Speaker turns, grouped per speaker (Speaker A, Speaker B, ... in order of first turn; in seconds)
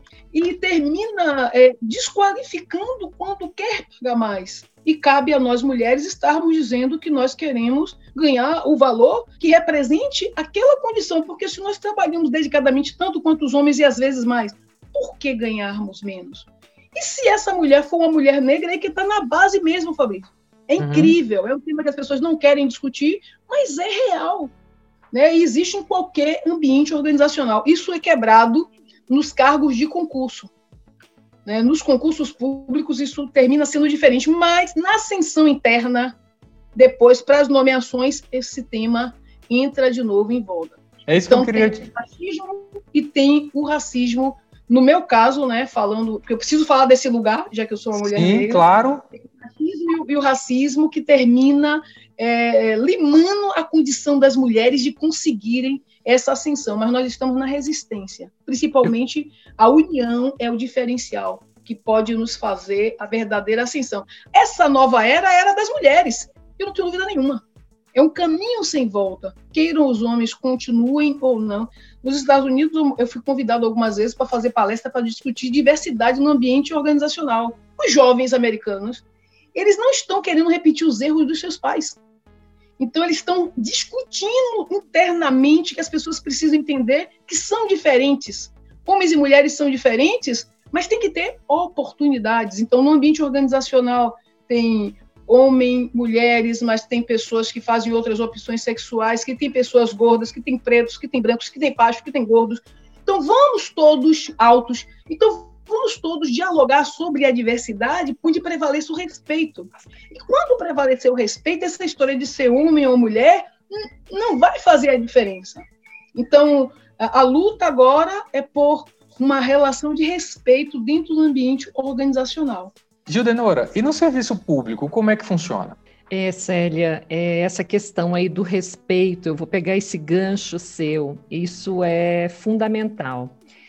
Speaker A: 0.3-24.5, 25.1-30.5, 31.4-36.1, 36.7-48.6, 49.4-67.4, 67.9-79.0, 79.5-82.0, 82.8-122.7
Speaker B: 20.8-21.1, 41.1-41.9, 47.9-49.0, 123.1-125.8
Speaker C: 126.1-133.3